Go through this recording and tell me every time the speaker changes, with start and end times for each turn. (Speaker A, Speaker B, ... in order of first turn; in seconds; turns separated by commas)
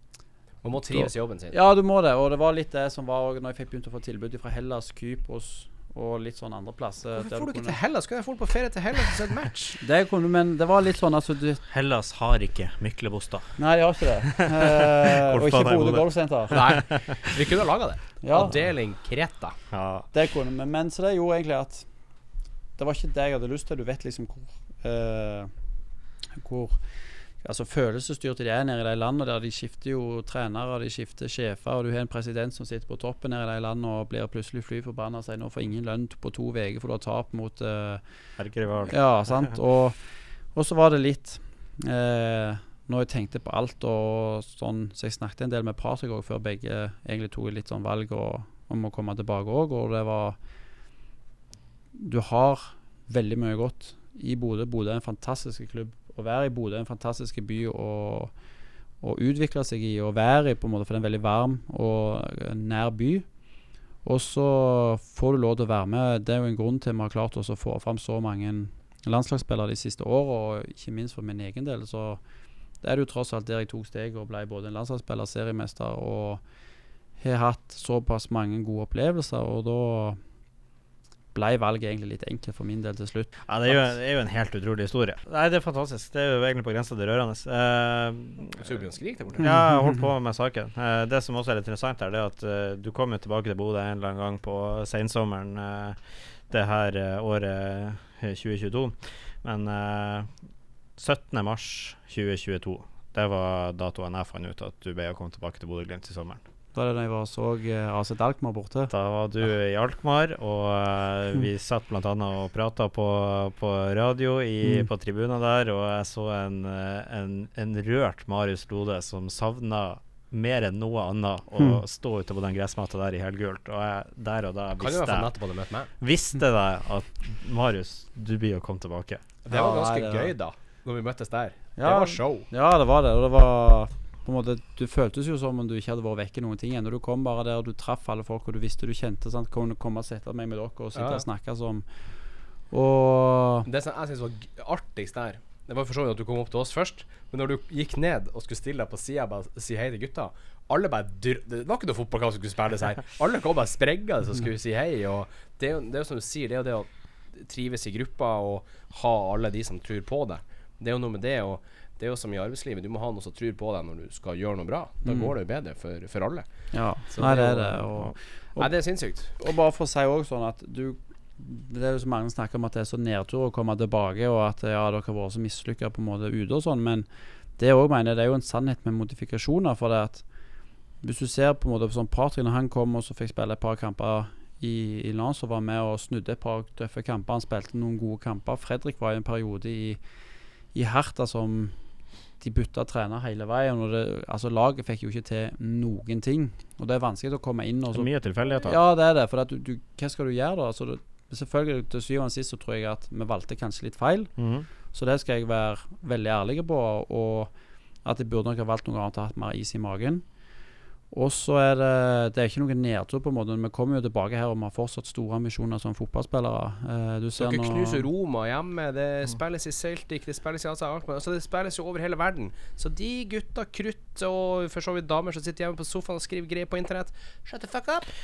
Speaker A: 0.6-1.6, Speaker B: 0.8-7.8, Speaker A: 7.2-9.8, Speaker B: 9.8-11.6, Speaker C: 11.7-13.6, Speaker B: 13.6-16.6, Speaker C: 14.2-17.3, Speaker A: 16.5-19.6, Speaker B: 18.2-18.6, Speaker C: 19.7-20.1, Speaker B: 20.1-21.9, Speaker B: 22.8-25.5, Speaker B: 26.4-26.8, Speaker B: 27.4-38.0, Speaker C: 38.4-39.5, Speaker B: 38.8-40.0, Speaker B: 40.5-50.4, Speaker B: 52.0-58.3, Speaker B: 59.0-63.3, Speaker B: 64.0-72.2, Speaker B: 72.8-76.4, Speaker B: 77.2-80.2, Speaker B: 81.3-83.9, Speaker C: 83.5-88.7, Speaker A: 88.5-89.5, Speaker C: 89.4-96.0, Speaker C: 96.5-100.3, Speaker C: 101.0-106.4, Speaker B: 106.7-108.9, Speaker C: 108.9-125.3, Speaker A: 124.8-125.9, Speaker C: 126.0-129.2, Speaker A: 129.4-132.5, Speaker B: 129.5-130.3, Speaker B: 131.8-141.8, Speaker A: 141.0-141.2, Speaker B: 142.7-143.7, Speaker A: 143.7-166.5, Speaker B: 165.1-165.3, Speaker B: 166.7-168.7, Speaker A: 167.1-167.8, Speaker A: 168.6-169.3, Speaker B: 169.3-177.1, Speaker B: 177.6-180.2, Speaker B: 181.0-190.0, Speaker B: 190.7-191.8, Speaker B: 192.4-198.1, Speaker C: 197.9-198.8, Speaker B: 198.6-204.3, Speaker C: 204.4-204.7, Speaker B: 204.9-207.5, Speaker B: 208.1-210.2, Speaker B: 211.1-218.1, Speaker A: 217.4-228.1